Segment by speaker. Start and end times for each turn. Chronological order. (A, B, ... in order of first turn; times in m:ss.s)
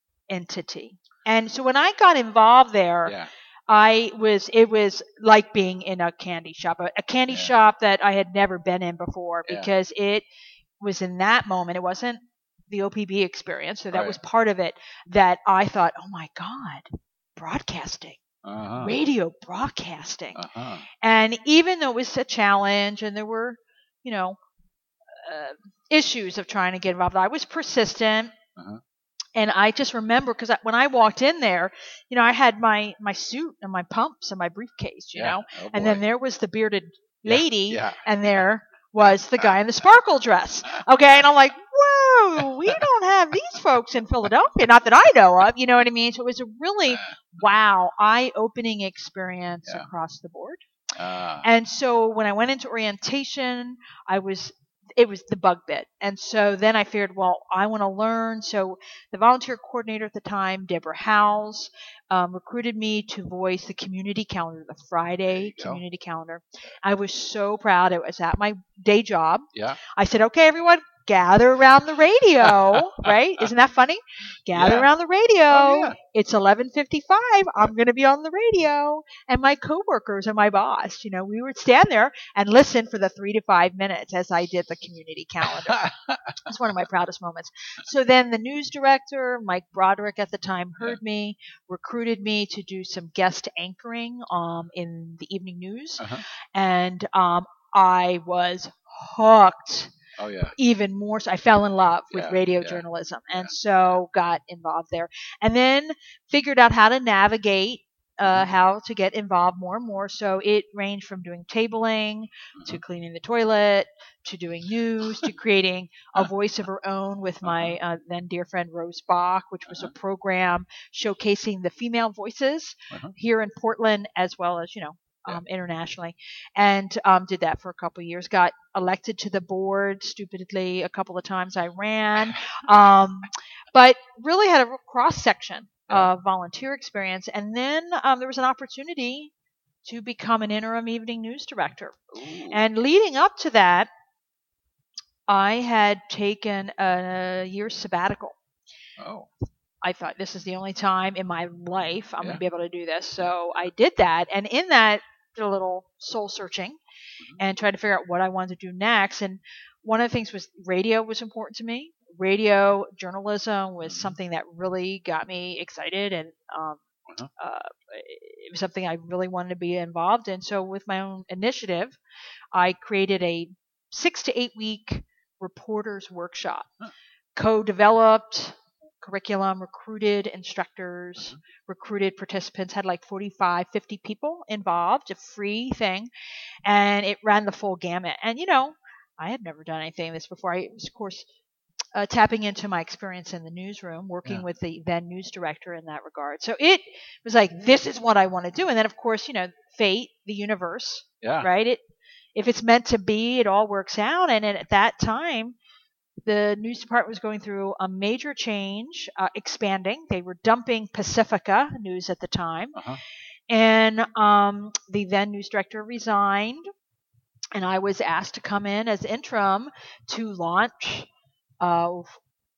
0:00.3-0:03.2 A
0:03.7-0:10.2 A
0:10.8-0:18.2 A
0:13.9-0:14.2 B
0:18.4-0:19.0 B
0:18.8-0:20.4 A
0:20.4-0:20.9 B
0:21.0-0:24.4 A
0:25.1-0:28.3 A
0:28.6-0:28.8 B
0:29.4-0:50.6 A
0:35.1-0:36.0 B
0:37.2-0:38.0 B
0:39.0-0:39.6 B
0:46.9-0:47.4 B
0:51.0-0:51.5 B
0:51.4-1:25.8 A
1:05.3-1:05.8 B
1:09.5-1:09.8 B
1:12.4-1:13.1 B
1:14.5-1:14.9 B
1:15.5-1:16.0 B
1:25.4-1:26.4 B
1:26.4-1:39.9 A
1:36.0-1:36.2 B
1:40.2-1:40.5 B
1:40.6-2:19.3 A
1:42.1-1:43.5 B
1:48.2-1:48.5 B
1:52.6-1:52.8 B
1:57.4-1:57.8 B
1:59.7-1:59.9 B
2:19.8-2:22.0 A
2:22.1-2:22.6 B
2:22.5-2:23.9 A
2:25.3-2:28.4 A
2:29.0-2:29.3 B
2:29.8-2:36.8 A
2:37.4-2:46.8 A
2:43.8-2:44.2 B
2:47.4-2:52.0 A
2:52.5-2:56.7 A
2:57.4-3:06.1 A
3:06.6-3:11.3 A
3:12.0-3:21.8 A
3:21.2-3:21.5 B
3:22.4-3:25.6 A
3:26.2-3:32.8 A
3:32.8-3:33.0 B
3:33.5-3:36.7 A
3:37.5-3:41.1 A
3:41.6-3:42.2 A